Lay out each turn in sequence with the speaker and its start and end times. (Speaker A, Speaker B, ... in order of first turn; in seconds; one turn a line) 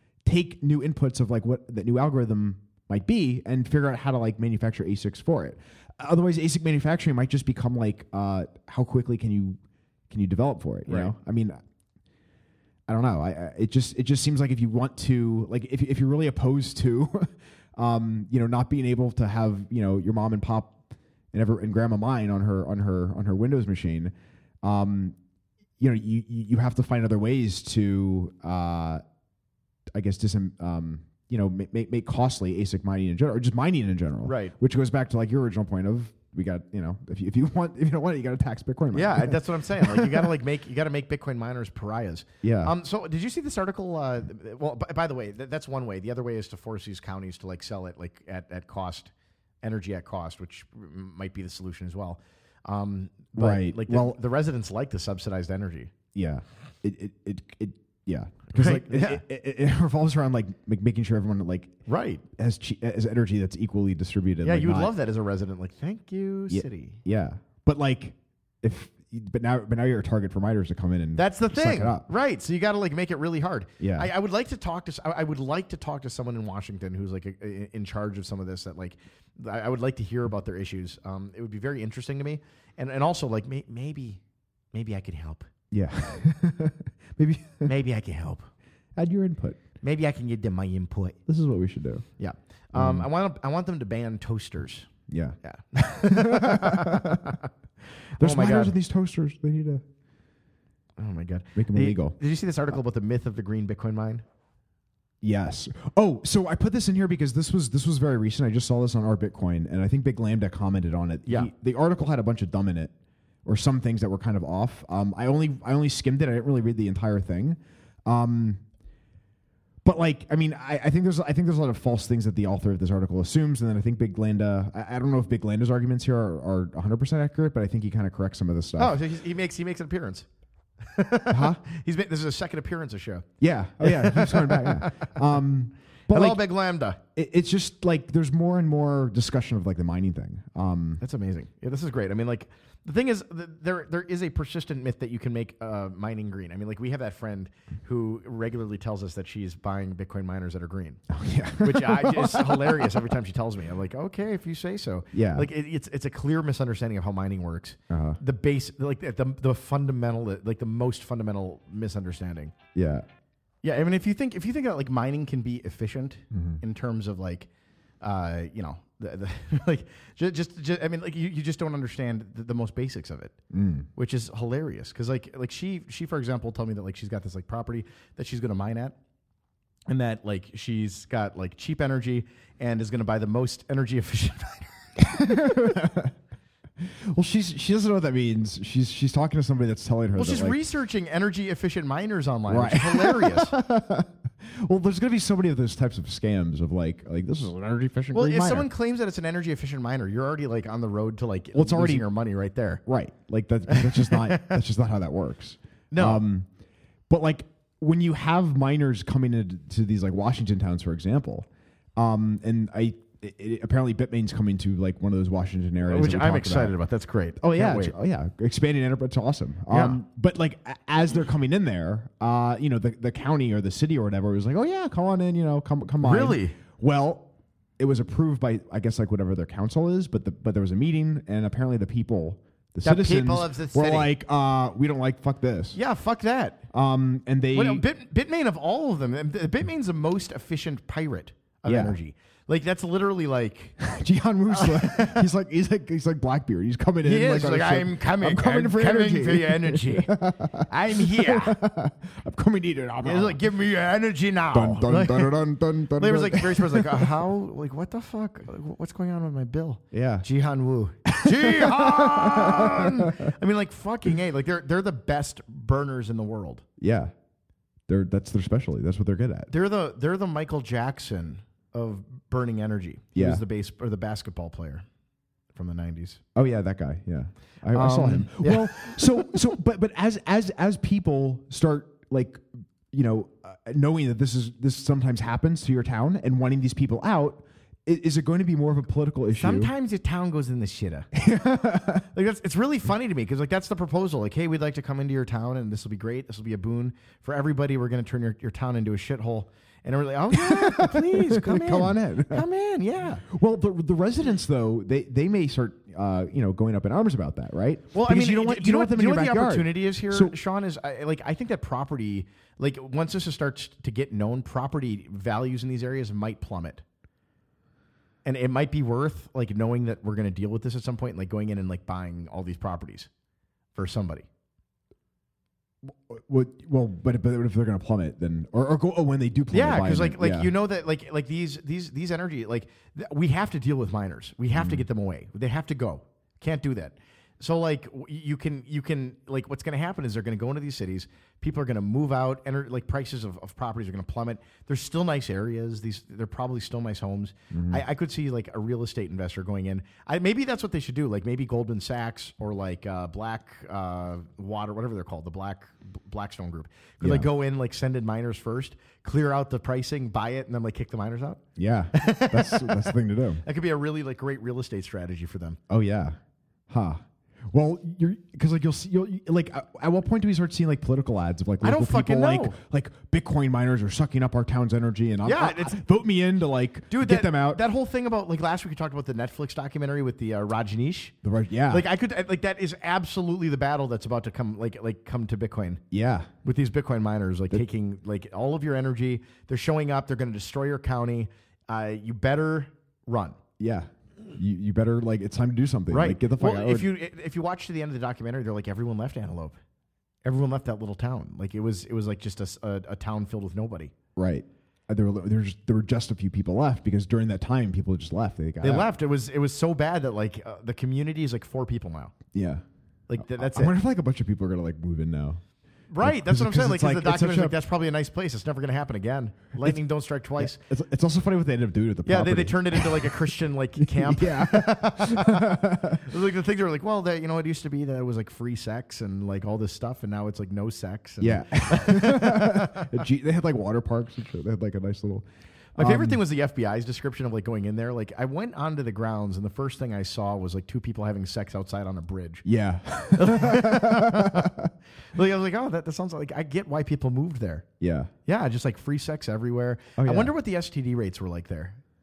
Speaker A: 0.2-9.6
Speaker A: 10.1-11.6
Speaker B: 10.9-11.1
Speaker A: 12.9-20.8
Speaker A: 21.3-24.1
Speaker A: 24.6-25.1
Speaker A: 25.8-29.0
Speaker A: 29.9-40.3
Speaker B: 34.2-34.5
Speaker B: 38.9-55.9
Speaker A: 42.4-42.7
Speaker A: 53.4-54.2
Speaker A: 56.1-61.7
Speaker B: 58.5-59.2
Speaker B: 61.9-62.2
Speaker A: 62.3-64.9
Speaker B: 64.4-67.0
Speaker A: 66.5-72.0
Speaker B: 71.1-84.2
Speaker A: 73.8-74.1
Speaker B: 84.7-85.5
Speaker A: 85.7-87.7
Speaker B: 87.6-88.5
Speaker A: 88.9-89.6
Speaker B: 89.8-91.2
Speaker A: 91.2-92.0
Speaker B: 92.2-94.9
Speaker A: 92.7-93.1
Speaker A: 95.1-97.4
Speaker B: 95.4-97.5
Speaker B: 98.1-98.7
Speaker A: 98.2-99.8
Speaker B: 101.0-104.2
Speaker A: 101.5-102.2
Speaker A: 105.2-112.9
Speaker A: 113.4-118.6
Speaker A: 119.8-129.0
Speaker B: 128.8-130.2
Speaker B: 130.8-133.3
Speaker A: 131.3-131.6
Speaker A: 133.4-136.4
Speaker B: 133.8-135.2
Speaker B: 136.1-137.0
Speaker A: 137.1-141.0
Speaker B: 141.0-151.0
Speaker A: 151.1-153.1
Speaker B: 151.6-162.5
Speaker A: 155.1-155.5
Speaker A: 157.9-158.2
Speaker A: 162.7-163.0
Speaker B: 163.6-167.5
Speaker A: 166.3-166.6
Speaker B: 168.0-173.3
Speaker A: 173.5-173.9
Speaker B: 173.9-178.9
Speaker B: 179.9-185.0
Speaker A: 185.0-186.1
Speaker A: 186.8-190.6
Speaker B: 190.2-193.6
Speaker A: 192.5-198.7
Speaker B: 198.1-202.8
Speaker A: 201.5-202.1
Speaker A: 202.8-206.5
Speaker B: 203.7-204.6
Speaker B: 205.9-206.2
Speaker A: 207.1-216.7
Speaker B: 215.8-217.9
Speaker A: 217.4-235.8
Speaker B: 219.7-220.0
Speaker B: 226.0-226.6
Speaker B: 232.8-234.1
Speaker B: 235.7-236.6
Speaker A: 236.7-237.8
Speaker B: 237.5-243.8
Speaker A: 241.7-242.0
Speaker A: 243.8-253.4
Speaker B: 244.5-245.3
Speaker B: 247.0-250.1
Speaker B: 250.7-251.6
Speaker B: 253.0-255.4
Speaker A: 254.5-257.1
Speaker B: 255.9-266.6
Speaker A: 259.9-260.2
Speaker A: 261.1-263.3
Speaker A: 266.8-267.1
Speaker A: 267.9-269.5
Speaker B: 269.5-274.8
Speaker A: 273.1-273.4
Speaker B: 275.5-276.2
Speaker A: 276.3-289.7
Speaker B: 277.7-279.4
Speaker B: 289.3-291.1
Speaker A: 291.1-292.1
Speaker B: 292.1-303.2
Speaker A: 300.3-302.4
Speaker A: 303.2-310.4
Speaker B: 307.9-316.8
Speaker B: 318.2-323.1
Speaker B: 323.7-324.2
Speaker A: 325.9-330.5
Speaker B: 329.5-361.4
Speaker A: 334.5-334.8
Speaker A: 347.5-347.8
Speaker A: 357.0-357.3
Speaker A: 361.6-363.4
Speaker B: 361.9-365.6
Speaker A: 365.7-366.2
Speaker A: 366.7-377.6
Speaker B: 371.6-372.6
Speaker B: 375.2-375.8
Speaker B: 376.9-381.1
Speaker A: 381.2-381.8
Speaker B: 381.7-385.8
Speaker A: 385.9-386.3
Speaker B: 386.4-393.4
Speaker A: 393.6-396.9
Speaker B: 395.9-399.6
Speaker B: 400.2-403.9
Speaker A: 404.1-408.9
Speaker B: 408.6-412.1
Speaker A: 412.3-412.6
Speaker B: 413.1-413.8
Speaker A: 413.2-415.4
Speaker B: 415.9-420.6
Speaker A: 416.0-417.5
Speaker A: 420.4-426.2
Speaker B: 422.1-433.0
Speaker A: 431.2-435.2
Speaker B: 435.7-442.4
Speaker A: 435.8-436.2
Speaker A: 442.4-444.7
Speaker B: 443.1-444.5
Speaker B: 445.1-447.6
Speaker A: 447.8-448.1
Speaker B: 448.2-451.8
Speaker A: 450.0-450.3